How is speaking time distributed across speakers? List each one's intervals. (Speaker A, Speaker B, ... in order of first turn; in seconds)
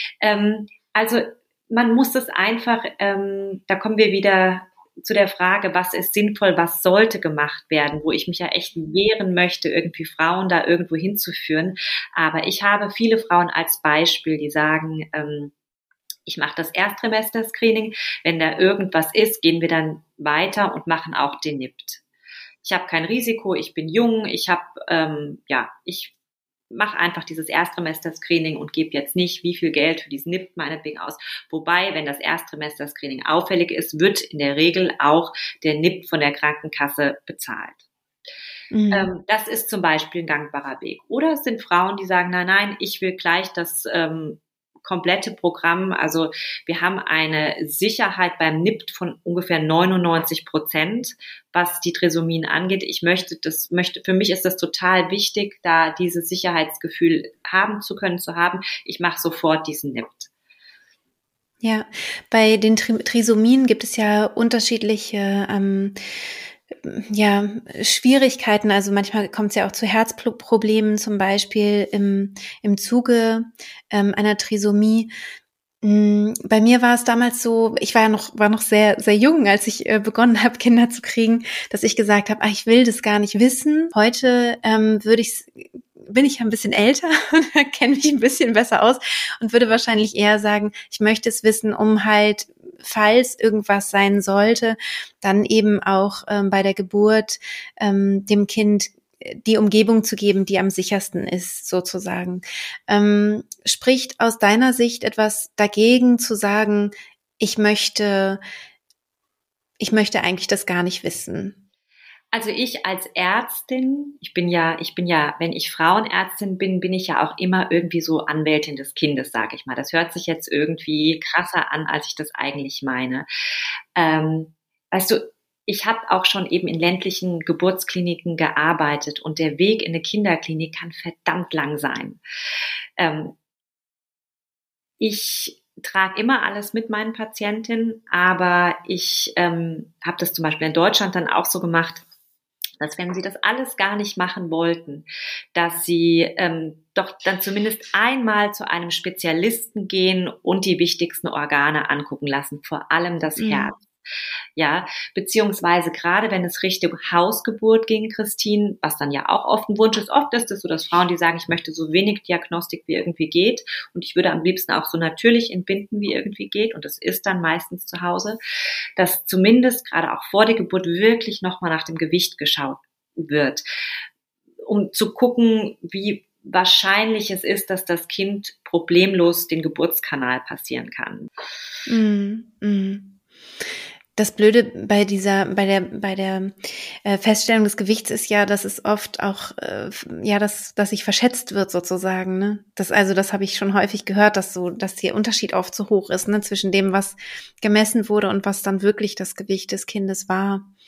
Speaker A: 0.2-15.5, 16.3-22.0, 22.6-26.1, 26.7-37.8, 38.9-60.3, 112.3-123.3, 124.0-132.2, 133.0-133.3, 135.0-142.0, 142.8-153.8, 154.6-168.4, 169.0-173.6, 174.7-181.3
Speaker B: 38.7-39.1, 61.6-75.1, 75.8-108.4, 109.8-111.6, 153.4-153.7, 181.9-183.2, 184.2-200.7